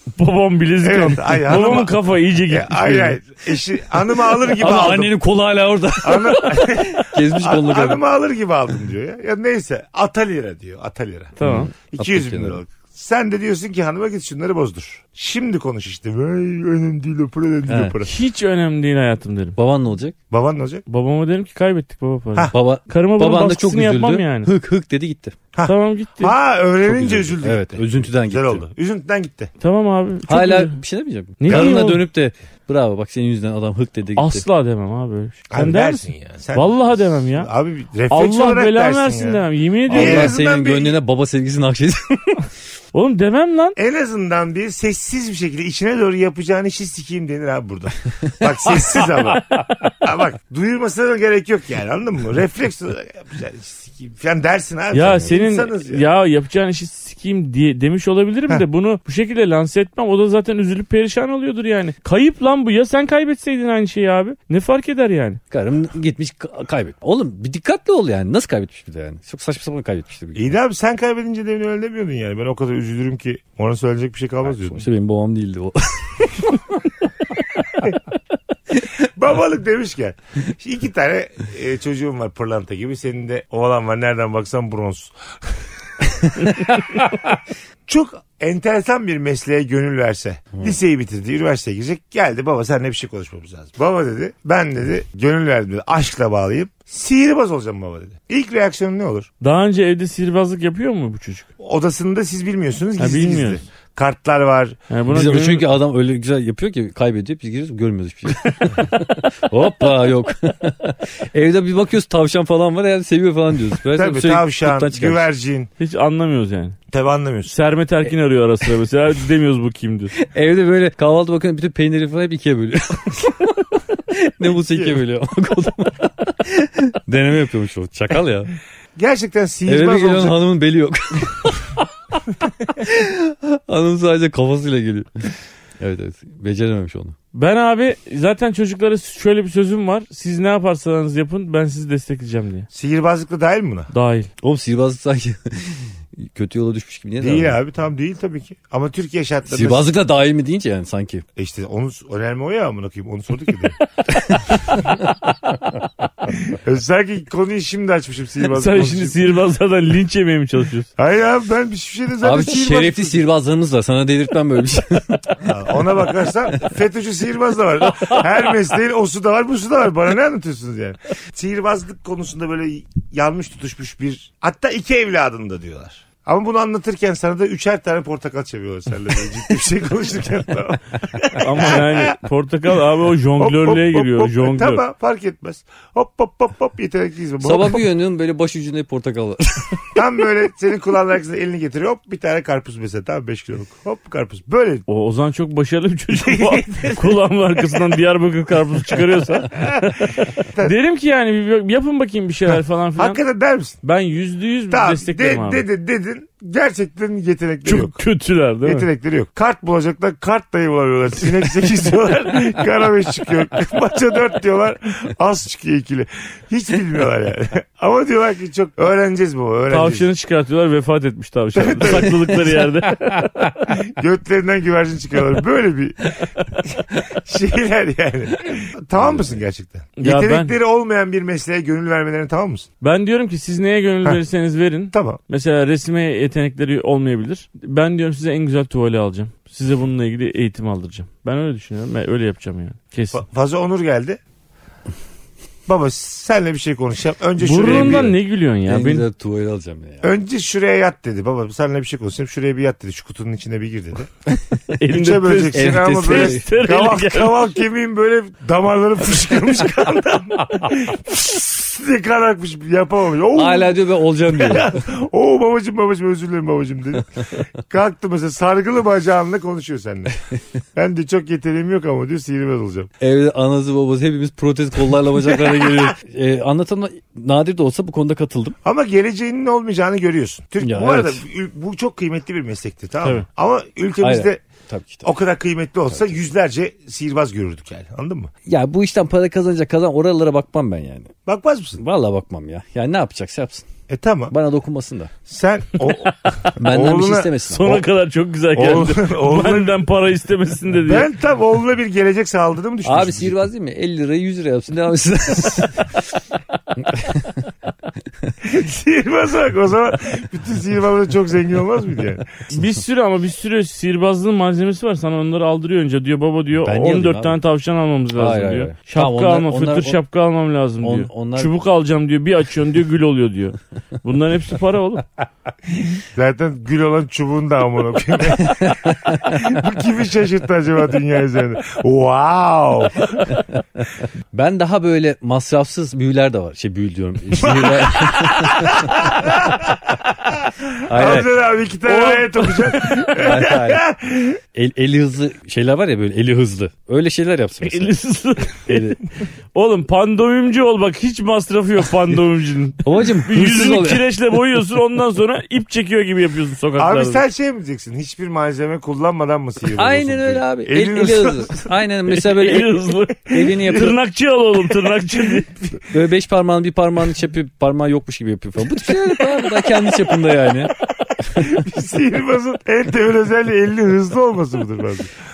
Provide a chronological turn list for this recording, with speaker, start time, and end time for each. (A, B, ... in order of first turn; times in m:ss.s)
0:00.2-0:03.2 A
0:00.8-0:05.1 B
0:04.4-0:08.0 C
0:06.0-0:11.4 B
0:11.4-0:11.7 A
0:11.4-0:12.6 C
0:11.9-0:18.1 B
0:17.7-0:18.0 C
0:18.0-0:19.6 A
0:19.6-0:20.2 C
0:20.3-0:20.8 B
0:20.9-0:24.5 A
0:22.5-0:25.4 C
0:25.5-0:29.5 B
0:25.6-0:26.3 A
0:26.8-0:28.6 C
0:29.6-0:30.8 A
0:30.3-0:34.4 C
0:31.4-0:32.0 A
0:31.5-0:31.8 B
0:34.2-0:37.5 A
0:35.5-0:41.0 B
0:38.1-0:40.3 A
0:39.9-0:42.4 C
0:42.9-0:43.8 A
0:43.8-0:56.0 B
0:54.9-1:05.4 A
1:05.5-1:10.5 C
1:10.3-1:14.8 B
1:14.4-1:17.9 C
1:18.9-1:25.5 B
1:26.5-1:27.0 C
1:27.8-1:39.3 B
1:39.4-1:41.5 A
1:41.6-1:44.8 B
1:43.0-1:43.6 A
1:44.9-1:45.7 A
1:45.1-1:55.3 C
1:53.9-1:55.7 B
1:55.8-1:56.8 A
1:56.9-1:57.5 B
1:57.5-2:00.2 A
2:00.2-2:08.5 C
2:04.6-2:05.0 B
2:09.0-2:10.4 B
2:09.7-2:11.8 C
2:12.7-2:17.2 C
2:17.3-2:22.7 A
2:22.7-2:23.9 B
2:23.9-2:24.3 A
2:24.4-2:27.6 C
2:27.2-2:29.9 B
2:29.5-2:31.2 C
2:31.4-2:33.8 B
2:34.0-2:35.2 C
2:36.4-2:39.3 B
2:38.5-2:40.9 A
2:41.0-2:43.2 B
2:42.2-2:45.5 C
2:45.4-3:02.2 B
3:01.4-3:04.8 A
3:03.4-3:07.8 B
3:07.4-3:09.9 C
3:10.0-3:14.8 B
3:14.9-3:23.2 A
3:16.1-3:18.0 B
3:19.5-3:20.7 B
3:23.0-3:23.8 B
3:23.8-3:25.6 A
3:24.7-3:28.0 B
3:27.6-3:28.9 A
3:28.6-3:40.1 B
3:39.7-3:43.3 A
3:41.5-3:42.4 B
3:43.7-3:52.7 B
3:49.0-3:49.4 C
3:50.0-3:50.5 A
3:52.8-4:03.2 A
3:54.9-3:55.2 B
4:03.1-4:04.2 B
4:05.7-4:08.1 B
4:07.4-4:09.0 A
4:07.6-4:10.1 C
4:10.0-4:14.1 B
4:14.3-4:14.7 C
4:14.8-4:17.4 A
4:14.9-4:30.2 B
4:15.5-4:16.4 C
4:23.3-4:24.7 C
4:30.7-4:32.9 B
4:33.0-4:38.6 C
4:38.6-4:44.4 B
4:40.6-4:41.2 C
4:44.0-4:45.1 C
4:45.0-4:48.3 B
4:48.4-4:51.1 C
4:51.3-4:51.8 B
4:51.8-4:53.7 C
4:53.9-4:54.3 B
4:54.3-4:55.1 C
4:55.3-4:57.8 B
4:56.5-4:57.8 C
4:57.4-5:01.1 A
4:58.5-4:59.8 B
5:00.8-5:03.5 B
5:02.8-5:05.9 C
5:06.8-5:07.4 C
5:08.4-5:12.3 B
5:12.5-5:25.0 A
5:16.6-5:17.4 C
5:18.1-5:20.0 C
5:20.8-5:21.5 C
5:26.1-5:33.4 B
5:28.5-5:29.4 C
5:34.3-5:39.4 C
5:37.4-5:44.4 B
5:40.8-5:41.3 C
5:41.9-5:42.7 A
5:43.1-5:43.8 C
5:44.5-5:47.9 C
5:47.6-5:49.0 A
5:48.7-5:49.0 C
5:49.5-5:57.2 A
5:52.8-5:54.0 C
5:56.8-6:01.7 B
5:59.7-6:04.0 C
6:02.1-6:05.5 A
6:03.3-6:03.9 B
6:05.2-6:05.6 B
6:05.8-6:10.7 C
6:11.3-6:11.5 C
6:11.3-6:15.1 B